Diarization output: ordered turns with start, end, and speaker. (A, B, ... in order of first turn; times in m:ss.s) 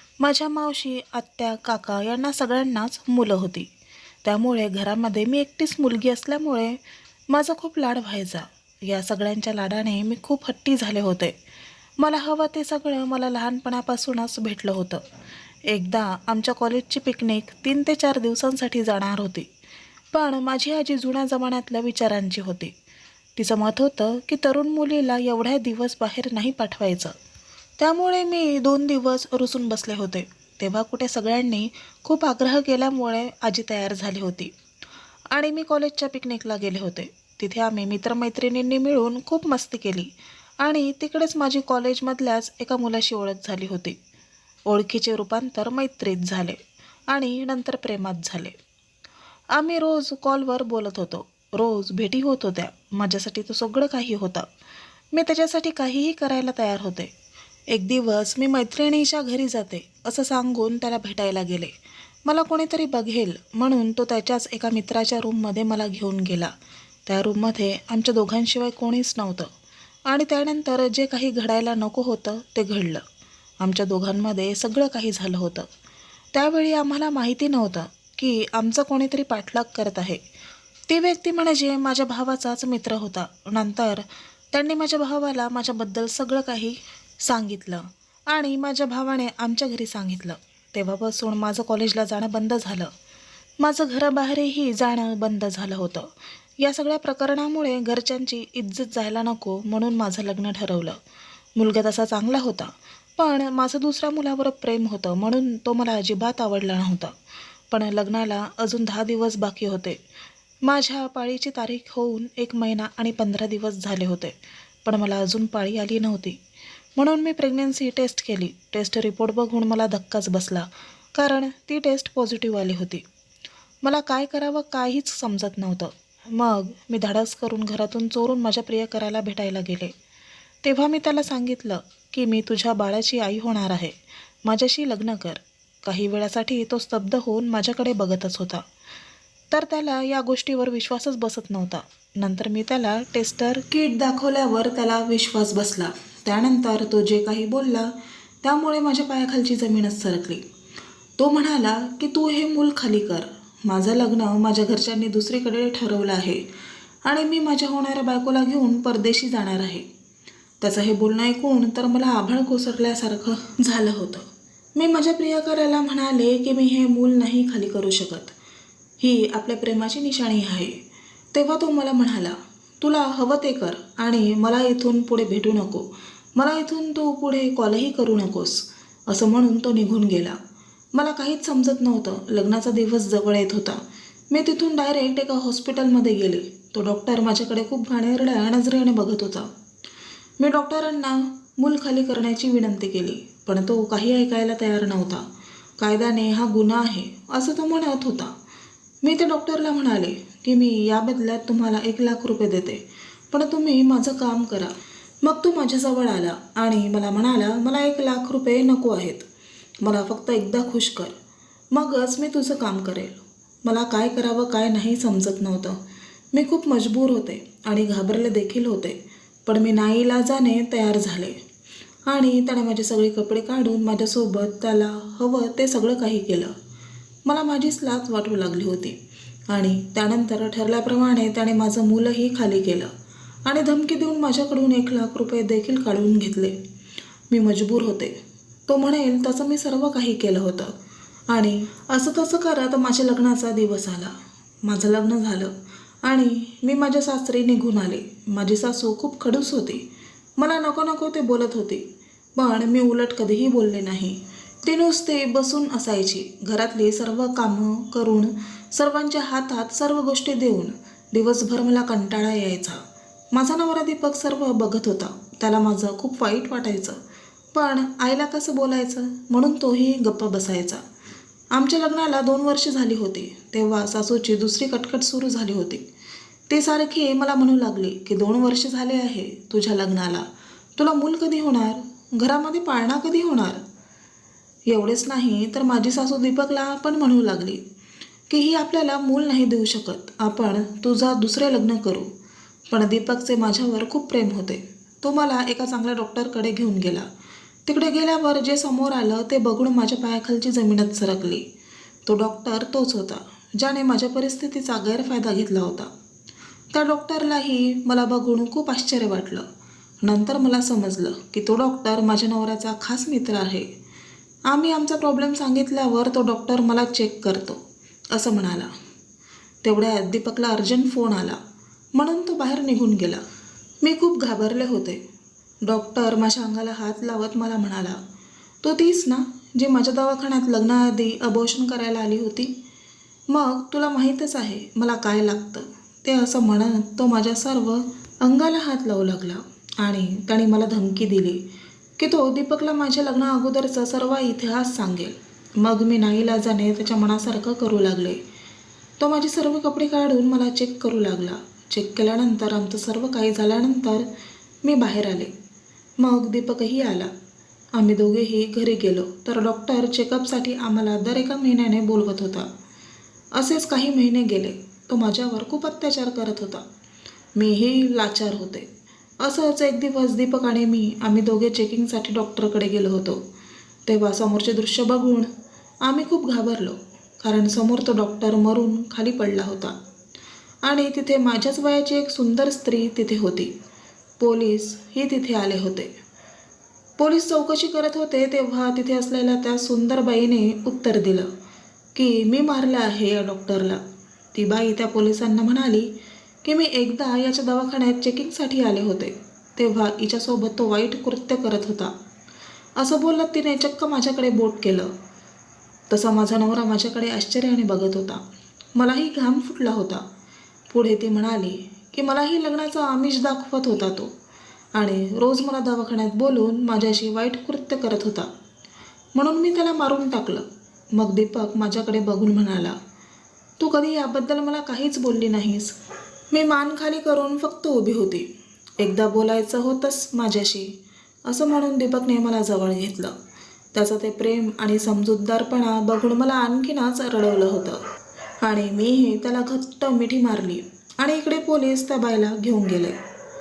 0:00.2-0:03.7 A
0:04.2-0:06.8 A
0:07.3-0:11.3 A
0:12.0-0:15.0 A
0:15.7-0:19.5 A
0:20.1-0:22.7 A
0:23.4-0:27.1 A
0:27.8-0:34.5 A
0:35.3-0:44.0 A
0:44.7-0:48.6 A
0:49.5-0:54.5 A
0:55.1-0:57.1 A
0:57.7-1:01.7 A
1:02.3-1:06.5 A
1:07.1-1:09.5 A
1:10.1-1:13.0 A
1:13.6-1:15.7 A
1:16.3-1:20.2 A
1:20.9-1:32.9 A
1:33.6-1:41.0 A
1:41.6-1:47.1 A
1:47.7-1:50.0 A
1:50.6-1:56.4 A
1:57.0-2:03.0 A
2:03.8-2:09.9 A
2:10.6-2:18.6 A
2:19.5-2:27.9 A
2:28.4-2:30.4 A
2:31.2-2:36.4 A
2:37.0-2:39.8 A
2:40.6-2:48.3 A
2:49.0-2:50.8 A
2:51.3-3:00.4 A
3:00.9-3:03.8 A
3:04.3-3:09.5 A
3:10.4-3:15.2 A
3:15.8-3:18.3 A
3:19.0-3:29.2 A
3:29.8-3:31.1 A
3:31.7-3:35.8 A
3:36.3-3:41.4 A
3:42.1-3:46.5 A
3:47.2-3:49.0 A
3:49.5-3:52.9 A
3:53.4-3:56.6 A
3:57.3-3:58.1 A
3:58.7-4:00.7 A
4:01.3-4:05.5 A
4:06.0-4:09.8 A
4:10.4-4:11.8 A
4:12.4-4:22.8 A
4:23.3-4:27.0 A
4:27.5-4:30.8 A
4:31.5-4:35.8 A
4:36.5-4:40.3 A
4:40.8-4:43.6 A
4:44.7-4:47.6 A
4:48.3-4:52.1 A
4:52.7-4:57.1 A
4:57.7-5:01.4 A
5:02.1-5:05.9 A
5:06.7-5:09.4 A
5:10.0-5:13.7 A
5:14.5-5:18.7 A
5:19.6-5:21.4 A
5:21.9-5:23.2 A
5:23.8-5:25.0 A
5:25.6-5:28.0 A
5:28.6-5:32.5 A
5:33.3-5:41.4 A
5:42.0-5:48.2 A
5:49.0-5:54.1 A
5:54.6-5:55.3 A
5:56.0-5:57.1 A
5:57.7-6:02.5 A
6:03.4-6:06.6 A
6:07.4-6:08.7 A
6:09.2-6:13.2 A
6:13.9-6:15.3 A
6:15.8-6:19.8 A
6:20.6-6:23.5 A
6:24.2-6:25.9 A
6:27.0-6:31.3 A
6:32.0-6:33.8 A
6:34.3-6:35.9 A
6:36.4-6:41.9 A
6:42.8-6:44.9 A
6:45.9-6:48.2 A
6:48.8-6:50.0 A
6:50.7-6:54.1 A
6:54.8-6:58.3 A
6:59.2-7:02.8 A
7:03.6-7:05.7 A
7:06.3-7:08.3 A
7:08.8-7:10.7 A
7:11.3-7:13.2 A
7:13.7-7:17.8 A
7:18.4-7:23.0 A